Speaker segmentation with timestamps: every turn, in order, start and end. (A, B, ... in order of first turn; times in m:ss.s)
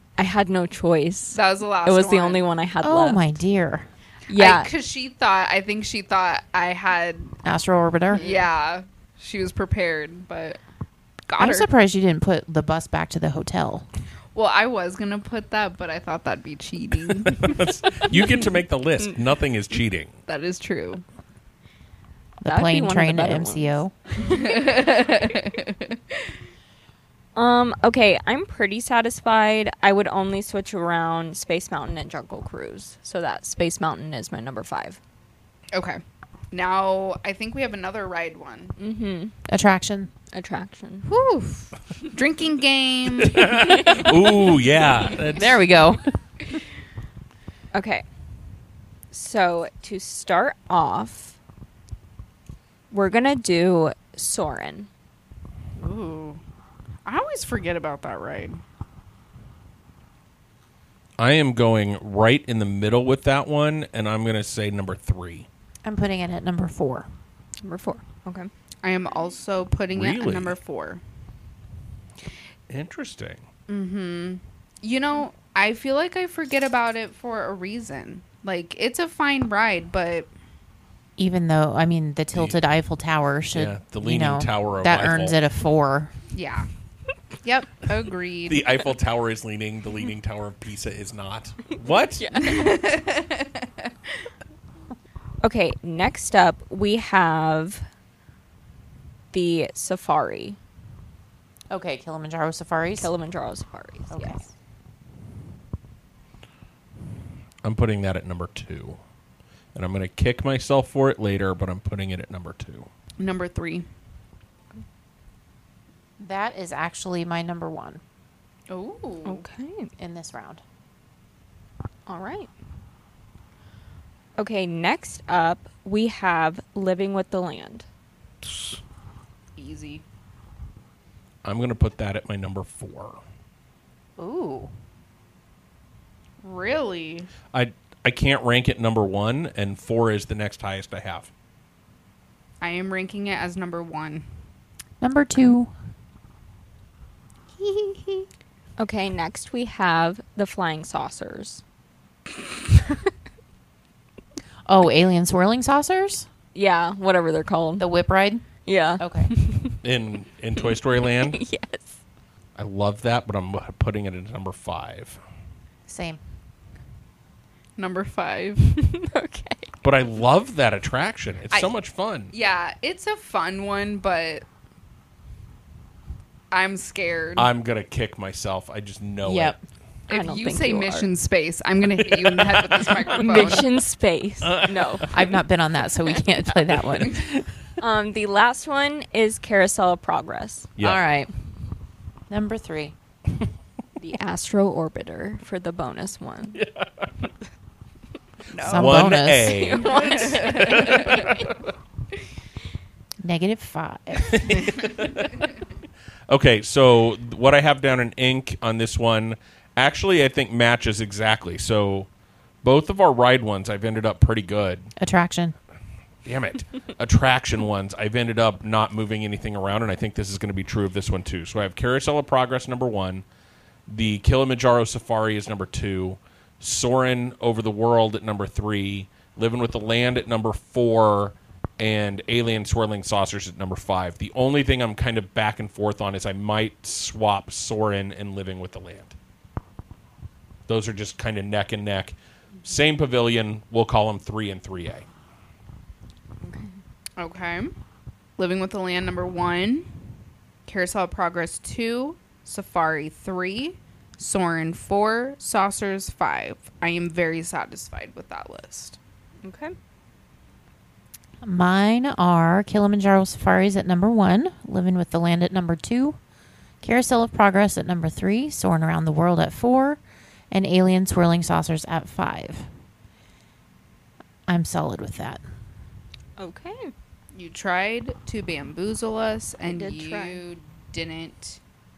0:00.2-0:03.3 A
0:01.3-0:02.4 B
0:02.8-0:03.9 C
0:04.3-0:04.7 A
0:04.3-0:07.4 B
0:07.4-0:08.3 C
0:08.1-0:10.6 B
0:11.3-0:11.7 B
0:11.4-0:13.9 C
0:14.3-0:18.4 B
0:17.2-0:20.2 D
0:20.3-0:21.0 B
0:22.4-0:23.9 C
0:22.4-0:23.7 A
0:24.2-0:26.2 B
0:27.4-0:35.0 A
0:35.7-0:36.0 B
0:36.5-0:38.7 B
0:38.8-0:39.3 A
0:39.5-0:40.1 C
0:40.3-0:41.1 A
0:41.1-0:43.6 B
0:43.2-0:45.6 D
0:43.6-0:44.1 A
0:45.3-0:46.0 C
0:47.7-0:48.0 A
0:49.1-0:51.4 A
0:52.9-0:54.9 A
0:55.8-0:56.4 B
0:57.0-0:58.6 B
1:01.2-1:05.5 D
1:05.8-1:07.1 C
1:07.6-1:08.5 A
1:08.8-1:11.0 B
1:09.9-1:10.6 D
1:12.7-1:13.4 D
1:13.7-1:20.3 B
1:21.2-1:26.1 C
1:22.3-1:22.6 D
1:23.5-1:25.4 D
1:26.3-1:26.7 B
1:27.4-1:28.6 B
1:28.4-1:32.4 D
1:32.2-1:32.8 A
1:32.4-1:33.9 B
1:35.4-1:37.8 A
1:39.3-1:40.6 A
1:41.7-1:43.1 C
1:43.0-1:44.4 A
1:44.1-1:44.4 C
1:47.6-1:49.0 D
1:49.7-1:52.9 D
1:53.2-1:53.8 B
1:56.2-1:58.0 C
1:58.7-1:59.4 B
1:59.2-1:59.9 A
2:00.0-2:00.6 C
2:02.1-2:02.5 A
2:04.4-2:07.8 A
2:09.6-2:10.0 B
2:11.4-2:13.2 D
2:14.2-2:14.7 C
2:16.4-2:17.3 B
2:17.5-2:21.3 D
2:22.6-2:24.2 B
2:25.0-2:25.7 C
2:27.6-2:28.2 B
2:28.8-2:31.6 A
2:34.6-2:36.3 C
2:36.5-2:37.9 A
2:37.8-2:38.5 C
2:38.6-2:39.8 A
2:39.0-2:39.3 C
2:39.8-2:41.4 D
2:40.6-2:42.0 A
2:42.6-2:45.2 D
2:45.9-2:46.2 C
2:47.8-2:48.7 B
2:48.7-2:49.7 A
2:49.8-2:52.3 D
2:52.3-2:54.4 B
2:56.5-2:57.5 B
2:57.4-2:59.6 D
2:59.2-2:59.6 C
3:00.1-3:03.7 B
3:00.1-3:01.1 A
3:02.0-3:03.1 D
3:03.1-3:05.3 A
3:04.4-3:05.0 D
3:05.1-3:07.4 C
3:07.8-3:10.7 A
3:10.8-3:11.0 D
3:10.8-3:11.3 C
3:12.3-3:12.9 C
3:14.0-3:16.6 A
3:16.5-3:17.1 D
3:18.5-3:19.1 B
3:18.6-3:19.6 C
3:18.7-3:21.4 D
3:19.4-3:21.3 A
3:19.7-3:21.3 B
3:23.2-3:24.7 C
3:24.3-3:25.3 D
3:26.3-3:32.1 D
3:32.6-3:34.9 D
3:35.0-3:35.5 C
3:36.2-3:43.2 D
3:43.9-3:59.1 D
4:00.7-4:05.1 D
4:06.4-4:06.7 A
4:07.2-4:07.7 B
4:08.4-4:09.9 B
4:10.6-4:19.0 B
4:19.4-4:19.7 A
4:21.4-4:26.2 C
4:26.8-4:32.7 C
4:34.5-4:35.4 C
4:36.4-4:36.9 A
4:37.3-4:41.6 B
4:39.6-4:40.4 A